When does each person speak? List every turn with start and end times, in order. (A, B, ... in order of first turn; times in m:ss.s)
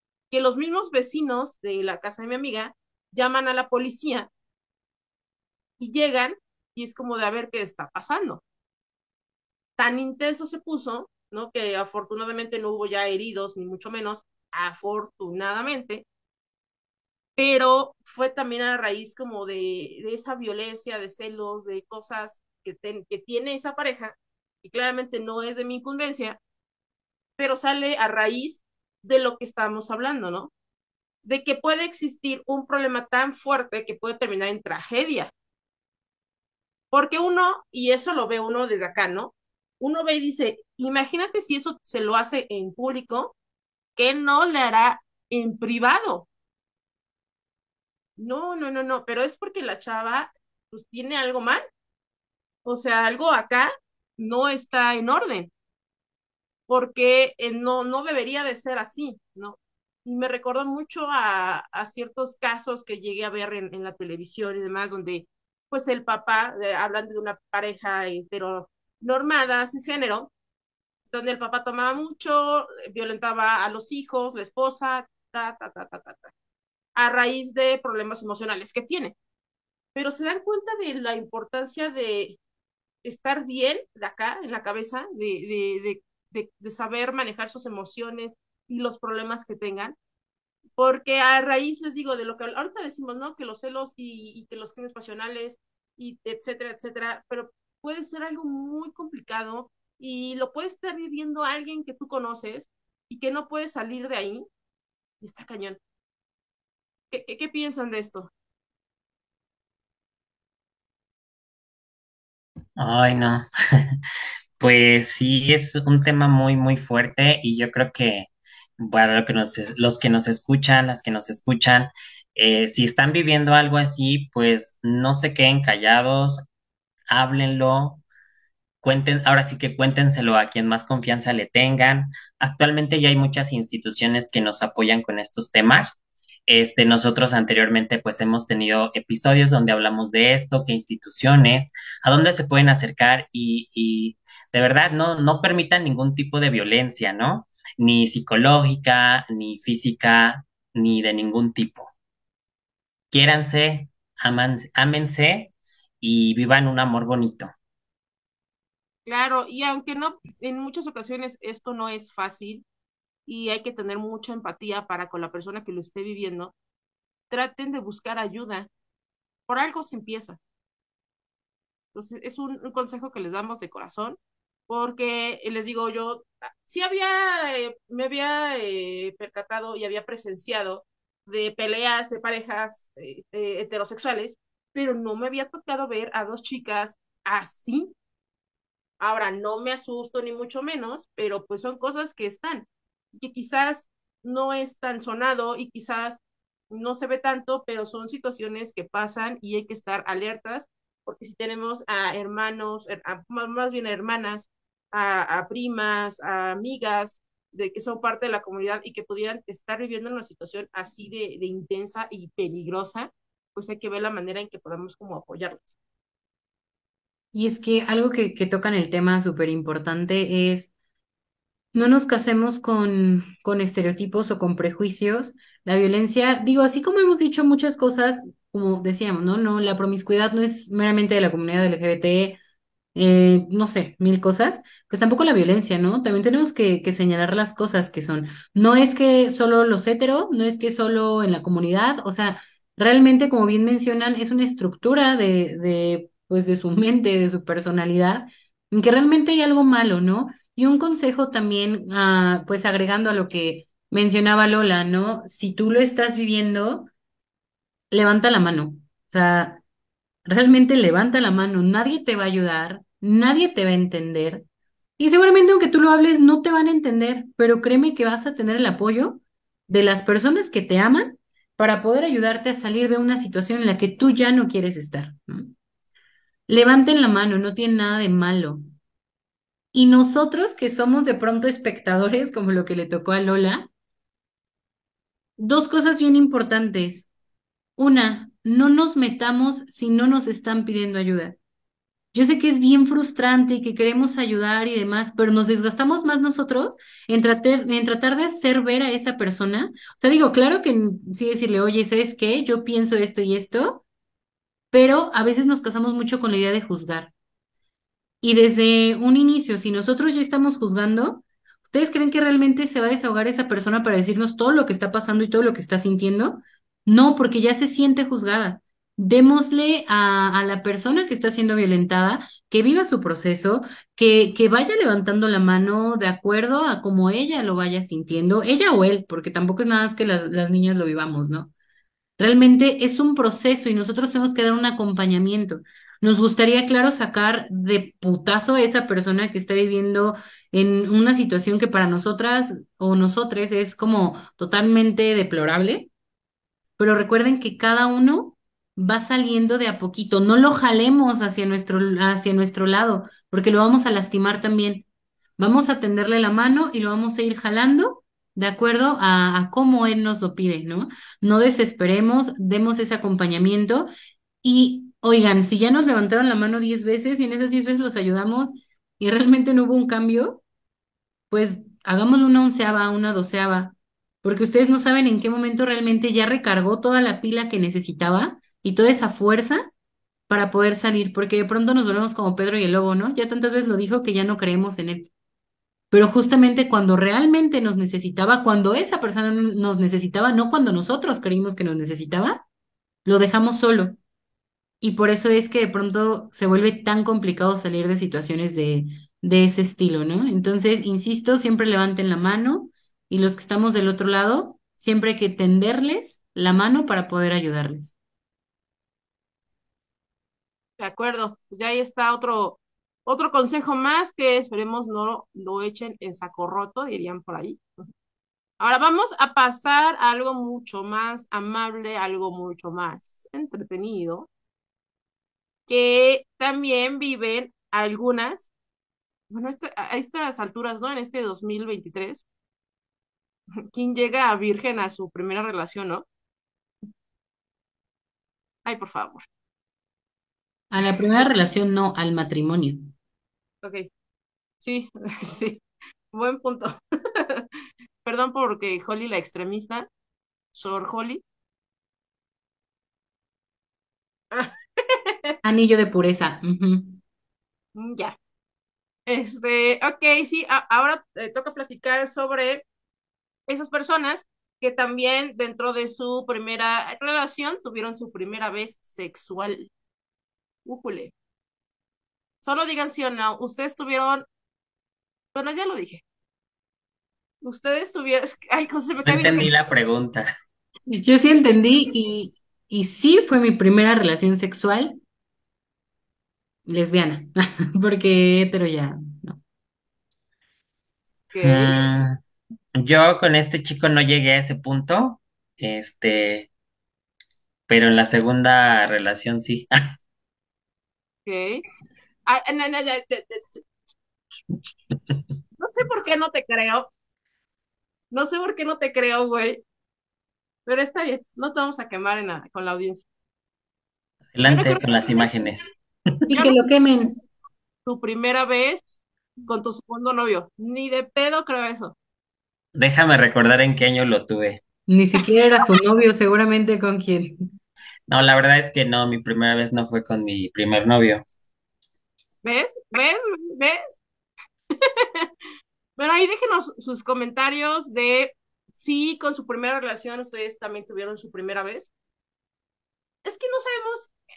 0:00.3-0:04.3 A
0:05.8-0:08.4 A
0:09.8-0:16.0 A
0:17.4-0:26.4 A
0:27.4-0:30.5 A
0:31.2-0:35.3 A
0:36.9-0:43.3 A
0:44.0-0:46.3 A
0:48.2-0:51.6 A
0:52.6-0:55.5 A
0:56.7-1:10.3 A
1:11.1-1:16.3 A
1:17.0-1:19.1 A
1:19.9-1:22.4 A
1:23.0-1:30.0 A
1:30.8-1:44.5 A
1:45.2-1:45.8 A
1:47.1-1:48.3 A
1:52.8-1:53.4 B
1:54.6-1:58.3 B
1:58.8-2:06.4 B
2:07.1-2:08.0 B
2:08.8-2:31.9 B
2:33.1-2:37.5 B
2:39.0-2:42.6 A
2:43.3-2:46.5 A
2:47.3-2:48.7 A
2:49.5-2:50.4 A
2:51.9-3:07.9 A
3:09.0-3:35.8 A
3:37.3-3:40.7 C
3:41.7-3:52.4 C
3:52.9-4:16.9 C
4:17.9-4:19.6 C
4:20.2-4:24.4 C
4:25.0-4:35.5 C
4:36.5-4:38.6 C
4:39.7-4:43.7 C
4:45.4-4:47.1 C
4:47.8-4:51.4 C
4:52.1-5:03.8 C
5:04.7-5:07.1 C
5:08.2-5:31.5 C
5:32.2-5:45.9 C
5:46.8-5:54.9 C
5:55.4-6:03.9 C
6:04.4-6:10.4 C
6:11.3-6:19.7 C
6:20.3-6:25.1 C
6:25.9-6:32.4 C
6:33.0-6:34.0 C
6:34.8-6:47.9 C
6:50.8-6:57.6 A
6:58.6-7:04.3 A
7:05.7-7:08.5 A
7:09.3-7:12.2 A
7:13.7-7:16.0 A
7:18.6-7:19.2 A
7:20.7-7:22.9 C
7:23.6-7:23.9 A
7:24.6-7:27.4 A
7:28.0-7:29.9 A
7:30.5-7:31.2 A
7:34.3-7:35.3 A
7:35.4-7:37.0 C
7:37.7-7:38.2 A
7:39.1-7:42.6 A
7:43.5-7:49.7 A
7:50.6-7:51.1 A
7:52.4-7:54.2 A
7:55.3-7:56.0 A
7:57.4-7:59.5 A
7:59.0-8:00.3 B
8:01.0-8:05.0 C
8:06.7-8:09.4 C
8:11.3-8:11.9 A
8:11.4-8:12.2 B
8:12.8-8:16.5 B
8:17.7-8:19.7 B
8:21.2-8:21.6 A
8:22.3-8:23.7 A
8:25.6-8:26.9 A
8:28.1-8:29.6 A
8:30.6-8:33.0 A
8:34.3-8:35.7 B
8:34.4-8:35.3 A
8:36.3-8:37.1 C
8:36.3-8:36.6 A
8:37.9-8:38.8 A
8:39.5-8:41.9 A
8:42.7-8:44.6 B
8:44.9-8:47.4 C
8:48.1-8:51.2 B
8:52.4-8:54.0 A
8:54.7-8:55.3 A
8:56.0-9:01.9 A
9:03.2-9:04.1 A